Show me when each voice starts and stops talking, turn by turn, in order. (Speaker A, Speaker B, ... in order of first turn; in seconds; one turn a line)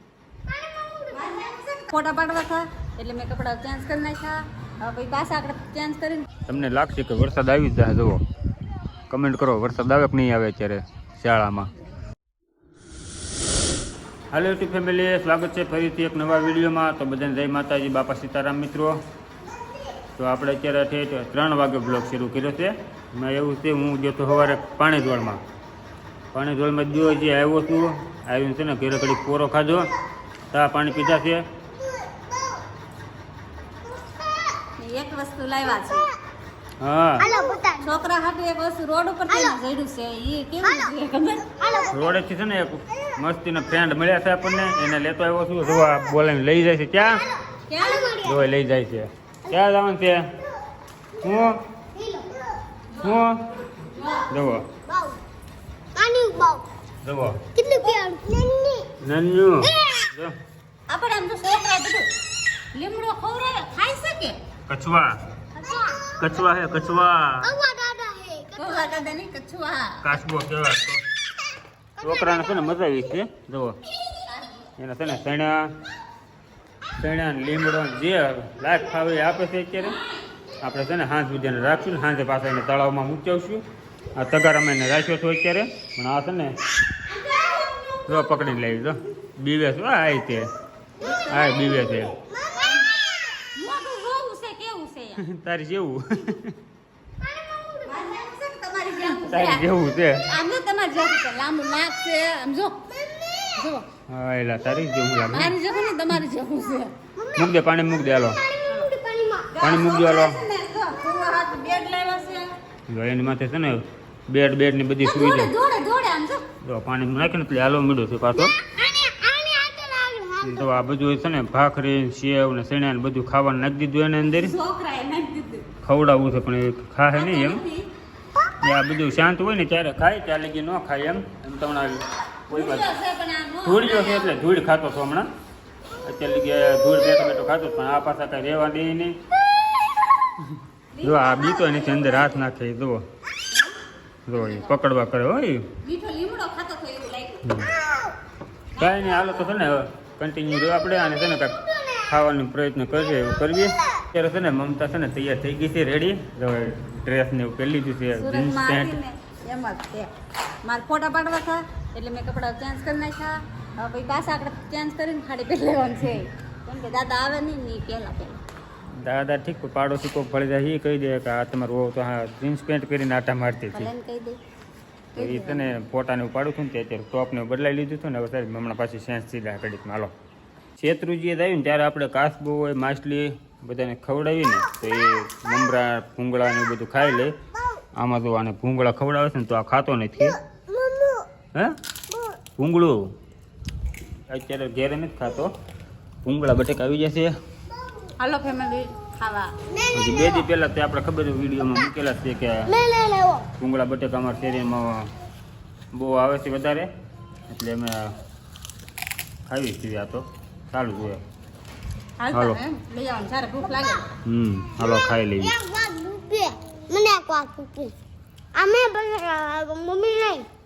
Speaker A: 0.5-1.1
Speaker B: 1.1-6.3
Speaker C: 6.5-8.2
Speaker C: 9.1-11.7
Speaker C: 14.3-19.0
Speaker C: 20.2-25.4
Speaker C: 26.3-29.9
Speaker C: 30.5-31.4
Speaker A: 31.8-32.6
Speaker A: 33.9-34.6
Speaker B: 34.8-36.1
Speaker C: 36.8-37.3
Speaker A: 37.2-38.0
Speaker B: 37.8-41.5
Speaker A: 39.3-39.6
Speaker A: 41.5-42.2
Speaker C: 41.9-47.2
Speaker B: 47.7-48.4
Speaker A: 47.8-48.3
Speaker C: 48.2-50.3
Speaker C: 51.2-51.6
Speaker A: 52.0-52.6
Speaker B: 53.0-53.2
Speaker C: 53.0-53.5
Speaker B: 53.8-54.3
Speaker C: 54.3-54.7
Speaker A: 54.9-55.2
Speaker A: 56.0-56.6
Speaker C: 57.0-57.4
Speaker A: 57.5-58.9
Speaker C: 59.0-60.3
Speaker B: 60.9-62.1
Speaker B: 62.7-64.4
Speaker C: 64.7-65.2
Speaker A: 65.6-66.3
Speaker C: 66.2-67.6
Speaker A: 67.4-68.8
Speaker B: 68.5-70.0
Speaker C: 70.0-71.0
Speaker C: 72.0-73.8
Speaker B: 74.2-74.7
Speaker C: 74.8-75.7
Speaker C: 77.0-80.0
Speaker C: 80.6-83.6
Speaker C: 84.2-86.6
Speaker A: 87.1-88.1
Speaker C: 88.1-90.5
Speaker B: 91.0-91.6
Speaker C: 91.3-92.2
Speaker A: 92.0-93.3
Speaker B: 92.6-92.9
Speaker B: 93.5-95.2
Speaker C: 95.2-96.6
Speaker A: 97.2-97.9
Speaker B: 97.8-99.7
Speaker C: 99.2-100.3
Speaker B: 100.3-102.9
Speaker B: 103.5-103.8
Speaker C: 104.1-105.5
Speaker B: 105.3-106.9
Speaker A: 107.2-107.5
Speaker C: 107.3-108.4
Speaker A: 108.5-109.6
Speaker B: 109.5-112.5
Speaker C: 109.6-110.4
Speaker C: 112.9-115.5
Speaker B: 115.0-116.5
Speaker C: 116.6-118.6
Speaker A: 118.7-120.7
Speaker C: 120.4-124.5
Speaker B: 124.2-125.7
Speaker C: 125.8-127.6
Speaker B: 127.1-127.9
Speaker C: 128.6-133.0
Speaker B: 132.5-134.4
Speaker C: 133.6-135.3
Speaker C: 136.0-139.2
Speaker B: 140.9-142.5
Speaker C: 141.0-143.0
Speaker C: 144.3-145.7
Speaker B: 144.3-144.8
Speaker B: 145.8-147.6
Speaker C: 147.4-147.8
Speaker B: 148.8-149.5
Speaker C: 148.8-159.0
Speaker B: 158.2-160.1
Speaker B: 160.6-168.4
Speaker C: 169.0-173.9
Speaker B: 173.7-174.4
Speaker B: 175.2-175.7
Speaker C: 175.2-180.1
Speaker C: 180.8-187.3
Speaker C: 188.0-190.4
Speaker A: 190.5-191.3
Speaker A: 192.1-192.4
Speaker C: 192.6-193.1
Speaker C: 194.3-195.5
Speaker C: 196.2-197.3
Speaker B: 198.2-199.6
Speaker A: 199.7-200.4
Speaker C: 199.9-202.8
Speaker A: 202.7-203.5
Speaker C: 203.6-205.1
Speaker C: 205.9-206.9
Speaker C: 207.5-208.2
Speaker C: 209.5-211.2
Speaker B: 212.2-214.1
Speaker C: 212.3-212.6
Speaker C: 214.2-215.6
Speaker A: 215.0-217.9
Speaker A: 218.5-220.5